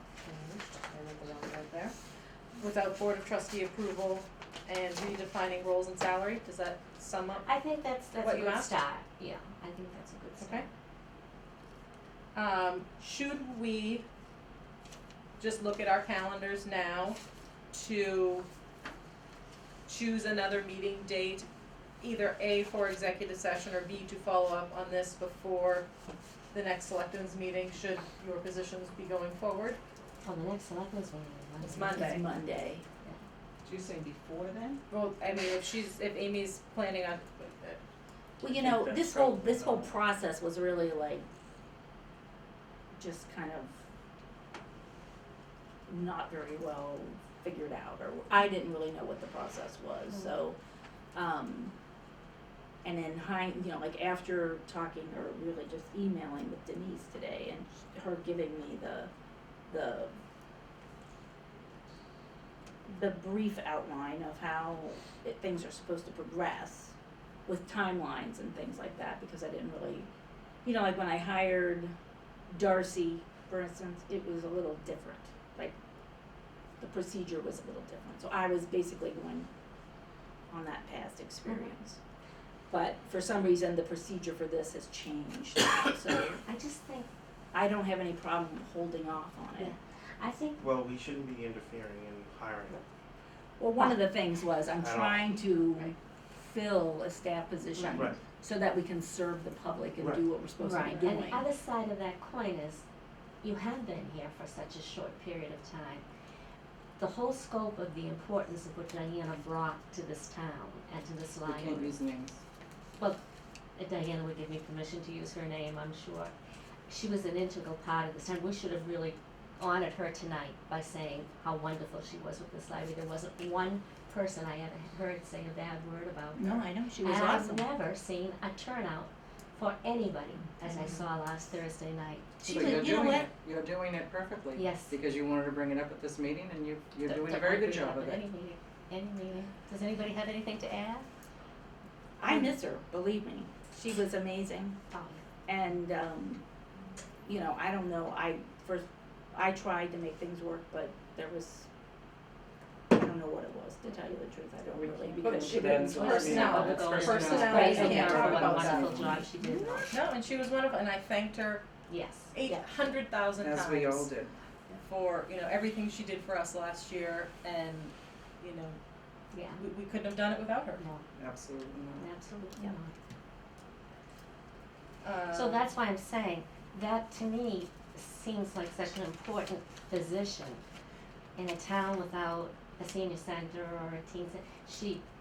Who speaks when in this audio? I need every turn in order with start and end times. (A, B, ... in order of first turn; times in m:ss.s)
0:00.2-0:01.9 A
0:02.6-0:07.4 A
0:07.4-0:10.6 B
0:08.2-0:08.8 A
0:10.4-0:10.6 A
0:12.3-0:14.0 A
0:15.4-0:17.2 A
0:17.7-0:18.5 A
0:19.8-0:21.5 A
0:22.0-0:25.9 A
0:26.5-0:29.8 A
0:30.2-0:32.2 B
0:31.6-0:32.2 A
0:31.9-0:32.8 C
0:33.6-0:34.8 D
0:34.9-0:37.8 A
0:38.4-0:41.2 C
0:38.5-0:39.9 D
0:42.9-0:43.7 C
0:45.9-0:50.6 C
0:51.1-0:51.7 C
0:52.8-0:59.1 C
0:59.7-1:00.1 C
1:02.9-1:06.9 C
1:07.4-1:10.1 C
1:10.6-1:11.9 C
1:12.5-1:15.7 C
1:16.8-1:19.5 C
1:20.5-1:22.0 C
1:21.5-1:21.7 B
1:22.7-1:26.4 C
1:26.4-1:27.1 B
1:27.5-1:29.7 C
1:29.6-1:30.6 B
1:30.6-1:32.8 E
1:33.6-1:41.5 C
1:34.7-1:35.5 E
1:37.7-1:38.0 B
1:40.0-1:40.2 E
1:40.6-1:42.8 B
1:43.4-1:46.0 B
1:47.0-1:52.0 B
1:51.4-1:52.4 D
1:53.8-1:56.3 B
1:56.9-2:13.3 B
2:06.3-2:07.7 C
2:12.4-2:13.3 C
2:12.5-2:18.2 D
2:14.5-2:14.9 B
2:17.0-2:21.0 B
2:22.2-2:24.8 C
2:24.9-2:25.2 B
2:25.4-2:26.4 C
2:27.2-2:31.7 C
2:32.9-2:36.2 C
2:34.7-2:39.2 D
2:35.2-2:39.2 A
2:35.8-2:40.0 B
2:37.5-2:38.4 C
2:39.2-2:39.8 C
2:39.9-2:41.7 A
2:41.9-2:42.3 B
2:42.3-2:44.1 A
2:43.4-2:44.3 D
2:44.8-2:48.8 A
2:49.3-2:49.6 B
2:49.6-2:50.8 A
2:50.8-2:51.0 B
2:51.2-2:52.1 D
2:52.0-2:52.9 B
2:55.0-2:55.6 A
2:55.3-3:00.6 B
3:01.4-3:05.0 B